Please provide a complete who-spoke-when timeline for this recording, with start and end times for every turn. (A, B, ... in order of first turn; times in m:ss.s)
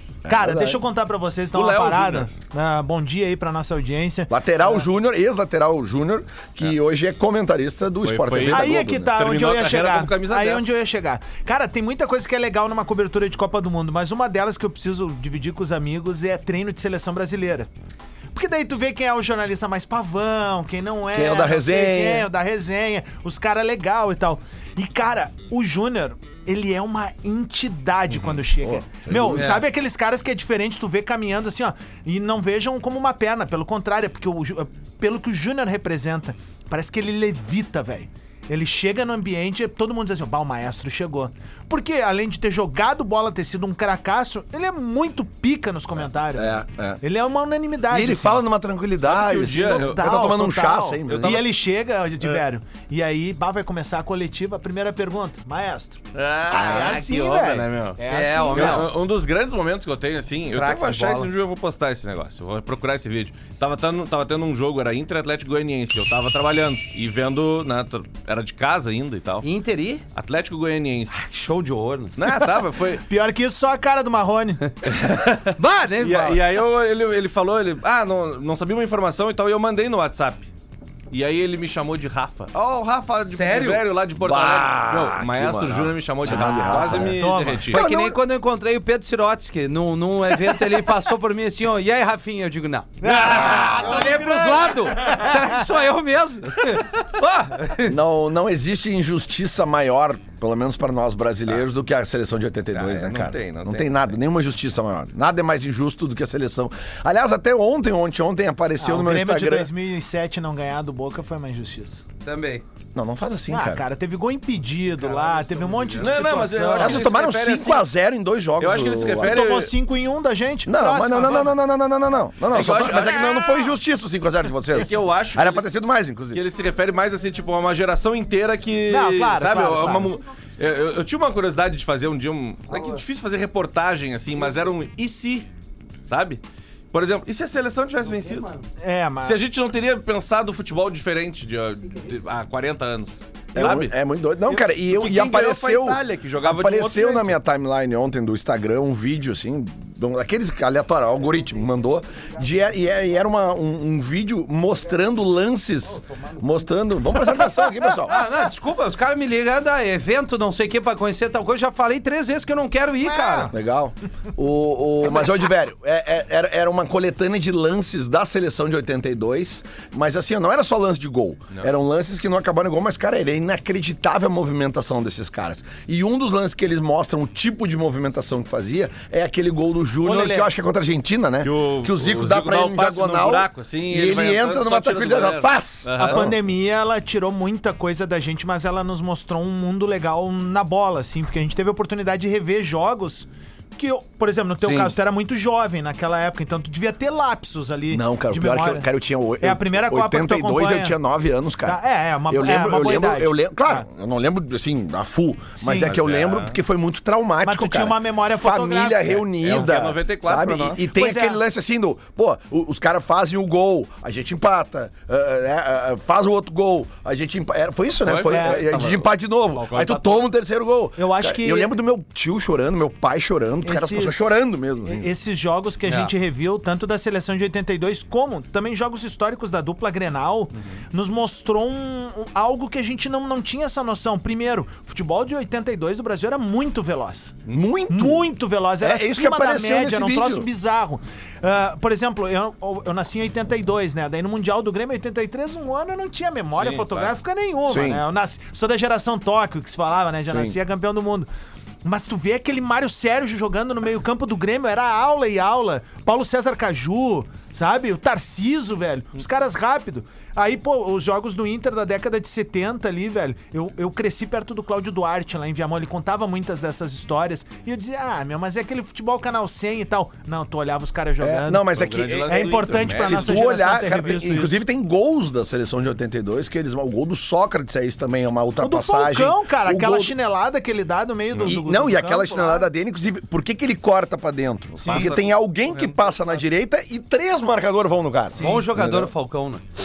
0:00.2-0:00.8 A
0:00.3-0:04.9 B
0:01.5-0:02.3 C
0:04.3-0:09.1 A
0:08.0-0:10.7 C
0:08.5-0:17.7 B
0:18.3-0:48.4 B
0:21.1-0:22.3 A
0:28.6-0:29.6 A
0:29.4-0:29.6 D
0:46.3-0:47.0 A
0:47.9-0:51.4 A
0:49.0-0:50.1 C
0:49.4-0:58.9 B
0:51.0-0:51.5 C
0:56.1-1:09.5 C
0:56.5-0:56.9 A
0:58.1-0:58.9 D
1:00.5-1:01.3 D
1:09.4-1:10.0 D
1:10.2-1:11.2 C
1:11.1-1:12.2 D
1:12.2-1:13.0 C
1:13.1-1:14.6 B
1:14.8-1:20.5 C
1:15.5-1:16.4 D
1:21.1-1:27.8 C
1:23.3-1:23.8 D
1:24.2-1:28.2 A
1:26.2-1:27.7 B
1:27.7-1:38.0 D
1:33.0-1:35.6 B
1:33.3-1:33.6 A
1:33.3-1:33.8 C
1:37.8-1:49.7 A
1:42.7-1:44.1 C
1:48.8-1:52.0 B
1:52.2-1:52.6 D
1:53.0-1:53.8 A
1:53.5-1:57.0 B
1:55.0-1:56.3 D
1:56.0-1:57.9 C
1:56.8-1:59.4 A
1:58.6-1:59.7 C
1:59.2-2:01.6 B
2:00.7-2:06.4 A
2:02.5-2:03.8 C
2:04.7-2:05.8 C
2:06.3-2:15.5 C
2:08.9-2:10.1 B
2:16.1-2:16.4 C
2:16.9-2:18.5 C
2:18.8-2:19.4 B
2:19.2-2:23.9 C
2:23.5-2:38.2 A
2:24.9-2:27.4 C
2:38.1-2:43.5 D
2:43.0-2:43.5 B
2:43.5-3:06.3 A
3:00.0-3:00.5 B
3:01.4-3:06.3 C
3:06.0-3:18.9 B
3:14.6-3:14.9 D
3:17.9-3:45.1 A
3:19.4-3:21.0 B
3:21.6-3:23.8 B
3:25.6-3:25.9 B
3:25.8-3:26.6 C
3:27.4-3:29.8 B
3:29.4-3:30.9 C
3:30.9-3:31.4 B
3:38.0-3:40.3 C
3:38.3-3:38.8 B
3:41.0-3:41.7 B
3:43.6-3:44.3 B
3:44.8-3:57.4 B
3:45.9-3:46.1 D
3:57.5-4:00.5 A
3:57.9-4:11.3 B
4:06.6-4:07.1 C
4:07.7-4:08.0 A
4:10.3-4:10.6 A
4:11.8-4:31.7 B
4:31.2-4:40.2 A
4:31.7-4:33.4 C
4:32.3-4:34.6 B
4:38.6-4:42.7 B
4:41.4-4:49.1 A
4:44.8-4:45.2 B
4:44.8-4:46.2 C
4:48.4-4:48.7 B
4:48.4-4:49.6 D